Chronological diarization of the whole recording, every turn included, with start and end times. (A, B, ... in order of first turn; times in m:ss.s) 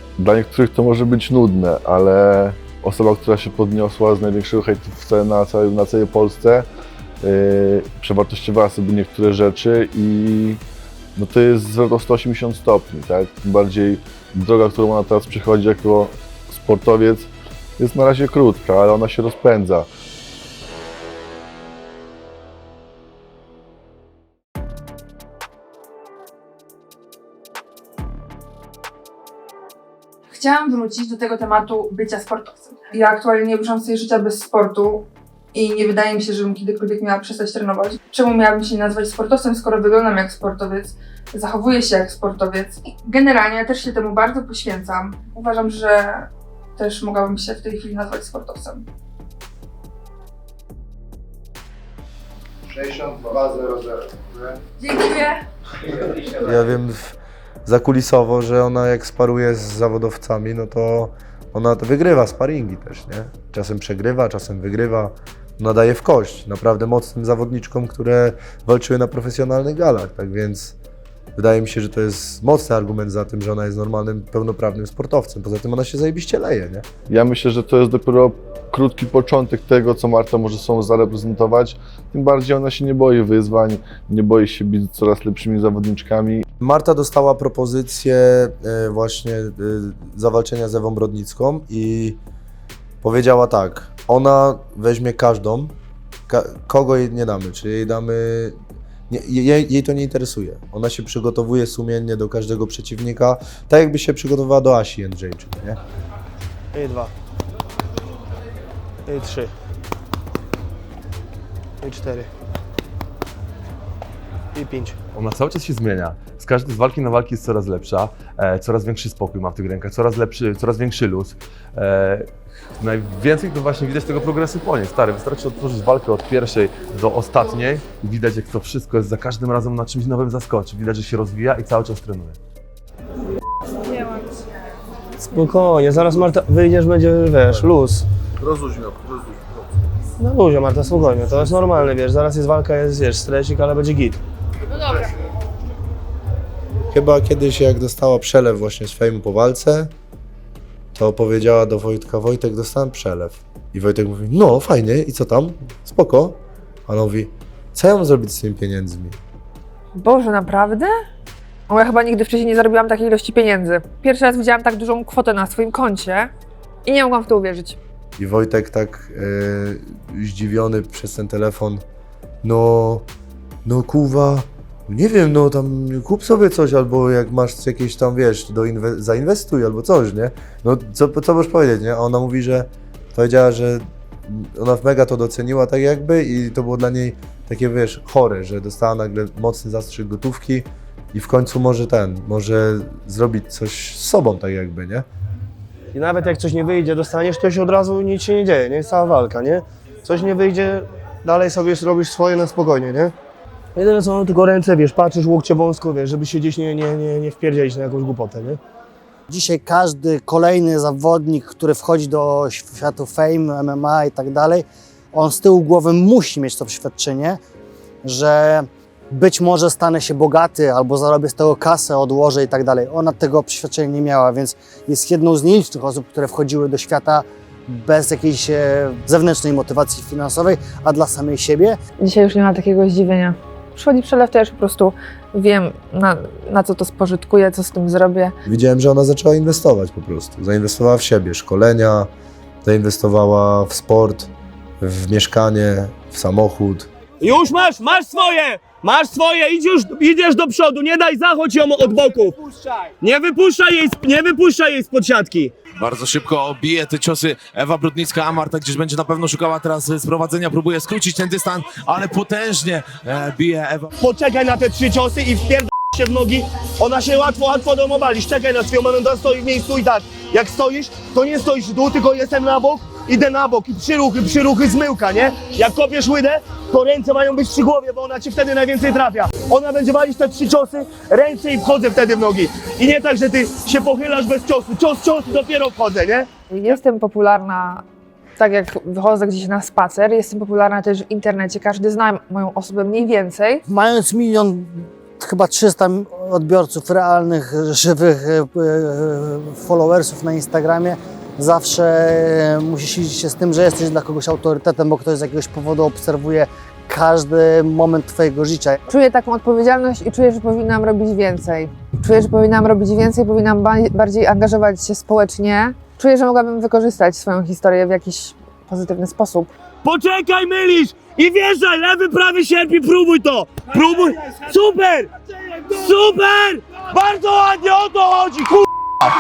0:00.2-0:06.7 A
0:07.2-0:10.6 A
0:11.2-0:19.9 A
0:30.3-0:48.9 B
0:54.8-0:55.4 B
0:56.4-1:10.8 C
1:11.4-1:16.9 C
1:17.1-1:26.4 A
1:26.6-1:32.2 C
1:33.0-1:35.7 C
1:36.3-1:38.6 C
1:39.1-1:45.8 C
1:46.7-1:47.1 D
1:49.1-1:49.5 D
1:51.8-1:52.3 D
1:54.6-1:55.0 D
1:55.1-2:12.4 E
2:15.2-2:18.0 D
2:18.4-2:19.1 A
2:20.2-2:24.2 D
2:26.9-2:29.9 C
2:30.9-2:39.2 C
2:39.9-2:40.9 F
2:41.7-2:46.3 F
2:46.8-2:47.8 F
2:48.2-2:51.8 C
2:52.4-2:53.1 C
2:53.6-3:15.1 C
3:15.9-3:23.1 D
3:23.8-3:28.6 D
3:29.3-3:37.4 G
3:38.0-3:51.8 G
3:52.0-3:58.4 F
3:58.5-4:02.1 C
4:02.6-4:04.3 C
4:04.8-4:06.9 C
4:07.2-4:12.4 D
4:13.0-4:15.5 D
4:15.8-4:23.9 H
4:24.0-4:46.3 D
4:46.5-4:47.8 F
4:48.4-4:53.6 F
4:53.7-5:08.8 G
5:08.9-5:19.5 F
5:19.8-5:25.1 D
5:25.7-5:28.7 D